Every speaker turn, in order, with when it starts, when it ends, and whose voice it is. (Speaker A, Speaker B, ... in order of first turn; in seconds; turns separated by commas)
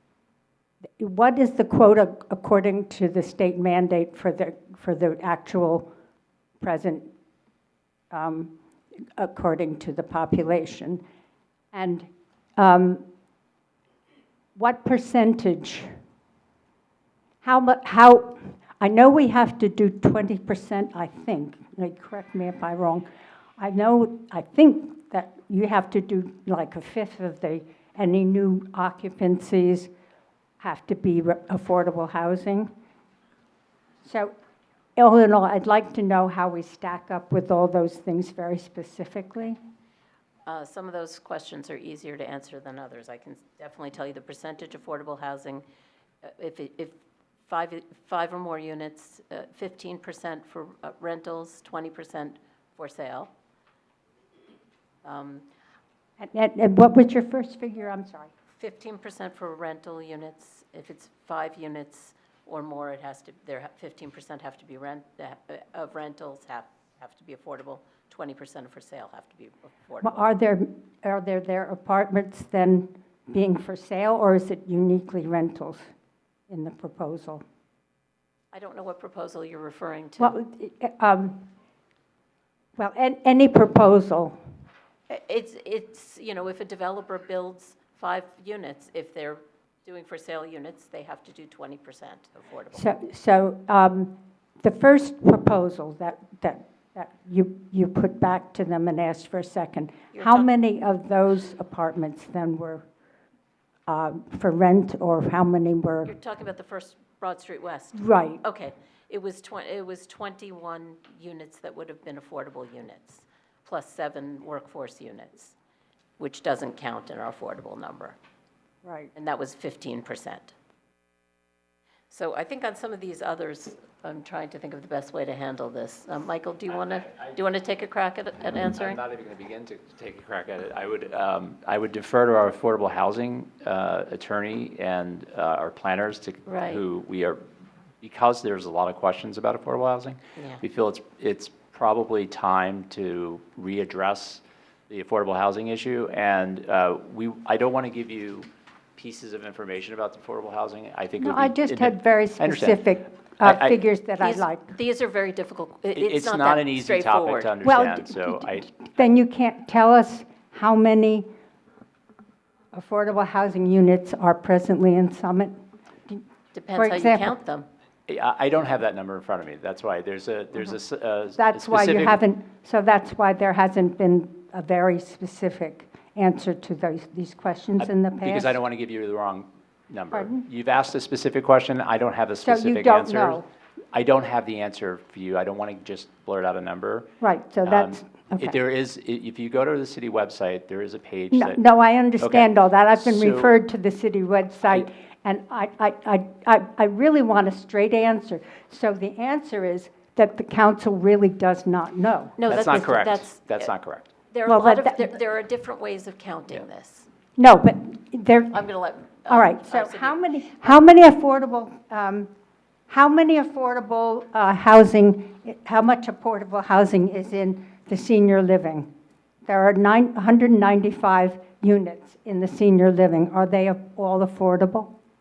Speaker A: 1.0-5.9, Speaker A: 6.6-7.1, Speaker A: 8.1-8.5, Speaker A: 9.2-11.0, Speaker A: 11.7-13.0, Speaker A: 14.6-15.9, Speaker A: 17.4-23.1, Speaker A: 23.6-29.9, Speaker A: 30.6-32.7, Speaker A: 34.0-34.3, Speaker A: 35.0-39.6, Speaker B: 40.5-45.6, Speaker B: 46.2-46.9, Speaker B: 47.5-53.3, Speaker B: 55.0-55.4, Speaker A: 56.2-58.3, Speaker B: 58.5-70.2, Speaker A: 70.0-75.9, Speaker A: 76.5-77.4, Speaker B: 78.5-80.3, Speaker A: 80.2-81.4, Speaker A: 82.8-84.4, Speaker B: 85.1-92.9, Speaker A: 92.7-102.8, Speaker B: 100.1-100.5, Speaker A: 103.9-106.1, Speaker B: 106.0-115.5, Speaker A: 107.9-108.4, Speaker B: 116.2-118.2, Speaker A: 118.8-119.1, Speaker B: 119.1-120.5, Speaker B: 122.1-129.0, Speaker C: 126.8-127.3, Speaker C: 128.6-137.4, Speaker B: 136.4-136.8, Speaker C: 138.0-152.8, Speaker B: 140.3-140.6, Speaker A: 151.2-154.7, Speaker C: 153.4-153.8, Speaker B: 154.2-157.5, Speaker C: 155.9-158.7, Speaker A: 157.6-161.3, Speaker A: 162.7-165.6, Speaker A: 166.1-167.3, Speaker B: 166.5-167.7, Speaker C: 168.1-172.2, Speaker A: 171.4-178.6, Speaker C: 177.8-183.4, Speaker A: 180.1-180.4, Speaker A: 182.4-183.4, Speaker C: 183.9-187.1, Speaker A: 187.2-188.5, Speaker C: 187.6-191.6, Speaker A: 191.3-202.9, Speaker C: 192.2-193.6, Speaker B: 202.4-203.7, Speaker C: 202.5-204.0, Speaker B: 204.3-207.1, Speaker A: 204.4-205.1, Speaker A: 207.4-208.6, Speaker B: 208.5-210.7, Speaker A: 209.3-212.3, Speaker A: 212.9-218.9, Speaker A: 219.4-224.9